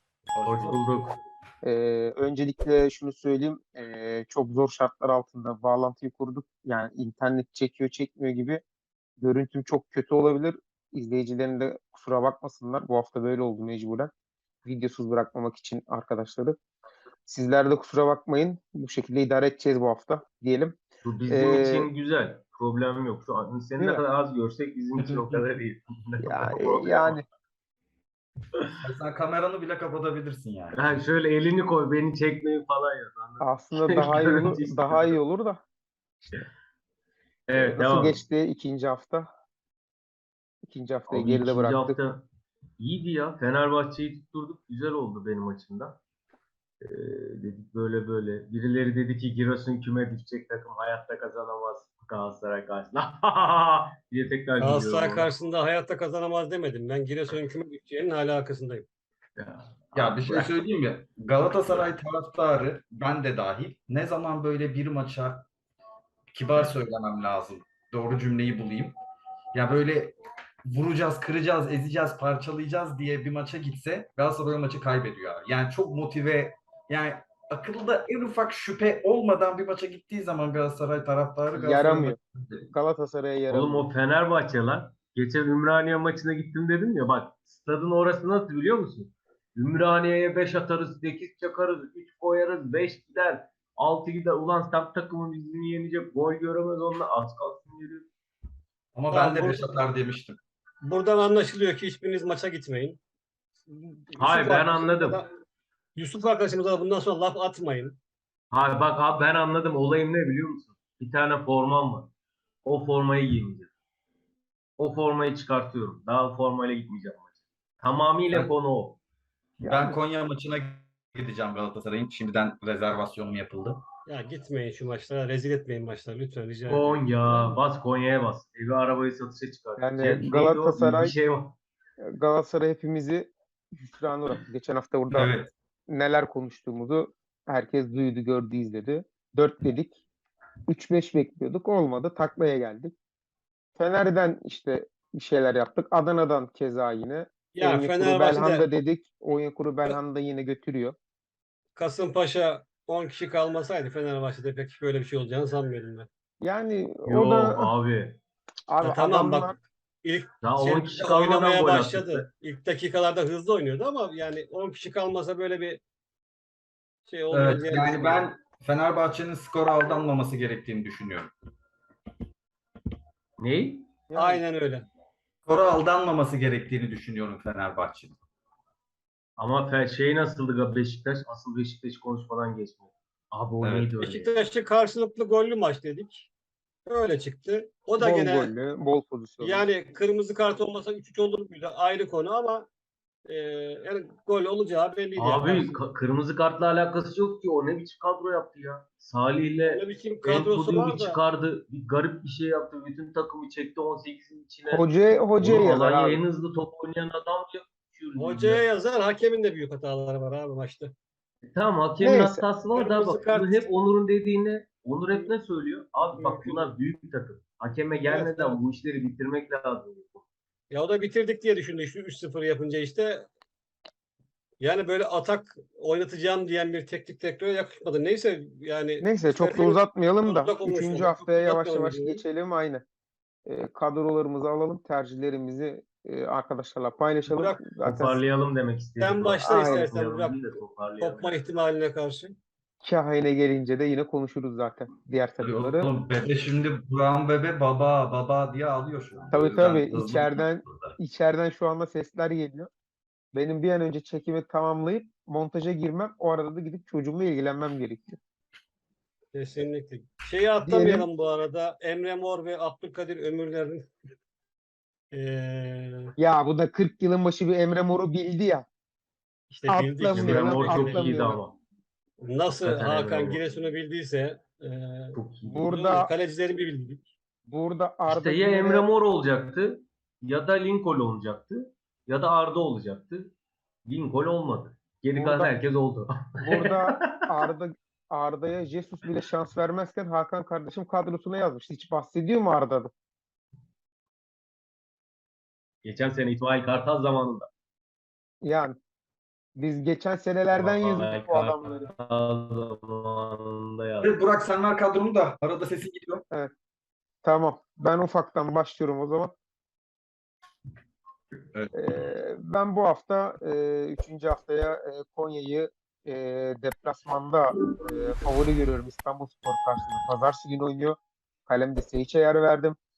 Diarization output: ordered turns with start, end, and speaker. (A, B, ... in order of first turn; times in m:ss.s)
0:00.3-0:00.9 A
0:00.4-0:01.2 B
0:01.6-0:08.6 C
0:09.2-0:14.1 C
0:14.6-0:16.6 C
0:17.3-0:21.9 C
0:21.0-0:27.2 B
0:23.8-0:24.0 C
0:25.0-0:25.4 A
0:26.2-0:27.2 C
0:28.8-0:30.8 A
0:30.7-0:35.2 B
0:33.4-0:35.6 C
0:37.5-0:38.2 B
0:37.6-0:39.3 C
0:40.6-0:42.0 C
0:41.1-0:42.3 B
0:42.8-0:46.0 B
0:46.8-0:55.3 B
0:54.6-0:58.9 D
0:59.4-1:00.6 B
0:59.9-1:05.5 A
1:06.3-1:09.0 A
1:09.5-1:22.2 A
1:21.5-1:23.9 C
1:23.5-1:38.1 B
1:39.0-1:40.4 A
1:39.1-1:39.8 D
1:40.8-1:43.0 D
1:43.7-1:45.3 D
1:44.2-1:45.2 B
1:46.0-1:48.0 D
1:48.5-1:52.1 B
1:52.6-1:53.7 B
1:54.8-1:59.0 B
1:59.6-2:00.0 C
1:59.6-2:03.8 A
2:04.1-2:07.5 D
2:06.7-2:11.6 B
2:09.8-2:11.2 C
2:12.0-2:20.0 C
2:15.1-2:15.5 A
2:20.7-2:22.9 C
2:23.8-2:31.0 C
2:27.6-2:28.7 D
2:31.8-2:36.1 D
2:36.4-2:37.7 C
2:37.1-2:38.2 B
2:38.7-2:39.6 C
2:38.8-2:45.8 D
2:40.4-2:42.3 B
2:47.1-2:48.3 D
2:47.3-2:51.3 A
2:53.4-2:53.9 B
2:54.1-2:54.4 C
2:54.2-2:54.9 D
2:55.4-2:58.2 A
2:59.4-3:04.3 B
3:03.6-3:03.9 A
3:04.0-3:06.3 D
3:06.9-3:08.5 D
3:08.0-3:09.7 C
3:09.4-3:12.7 D
3:13.3-3:15.8 D
3:15.2-3:24.9 B
3:19.7-3:21.2 D
3:24.7-3:26.2 C
3:25.4-3:28.6 B
3:28.2-3:30.9 D
3:31.5-3:40.2 B
3:32.0-3:32.4 C
3:32.8-3:33.7 D
3:36.2-3:36.6 D
3:38.1-3:38.6 D
3:40.7-3:43.3 D
3:44.6-3:52.2 D
3:49.0-3:52.8 C
3:53.5-3:58.2 C
3:57.3-3:57.6 D
3:57.8-4:01.4 B
3:59.0-4:02.4 D
3:59.4-3:59.9 C
4:02.8-4:05.9 C
4:05.4-4:11.0 A
4:09.3-4:12.7 C
4:13.3-4:18.2 C
4:19.3-4:23.9 D
4:20.6-4:21.1 C
4:25.1-4:26.1 D
4:26.2-4:28.7 C
4:29.5-4:31.1 D
4:29.7-4:31.4 C
4:30.1-4:31.6 B
4:32.2-4:35.2 D
4:32.6-4:33.6 B
4:35.1-4:35.7 B
4:35.5-4:36.1 C
4:35.7-4:37.0 D
4:37.5-4:38.9 C
4:38.1-4:43.3 B
4:43.8-4:47.2 B
4:45.2-4:45.5 C
4:46.4-4:52.9 C
4:55.8-4:57.5 B
4:58.4-4:58.8 C
4:59.6-5:01.9 C
5:00.5-5:04.1 B
5:04.0-5:06.2 A
5:07.2-5:09.4 C
5:11.5-5:12.0 A
5:11.7-5:22.8 C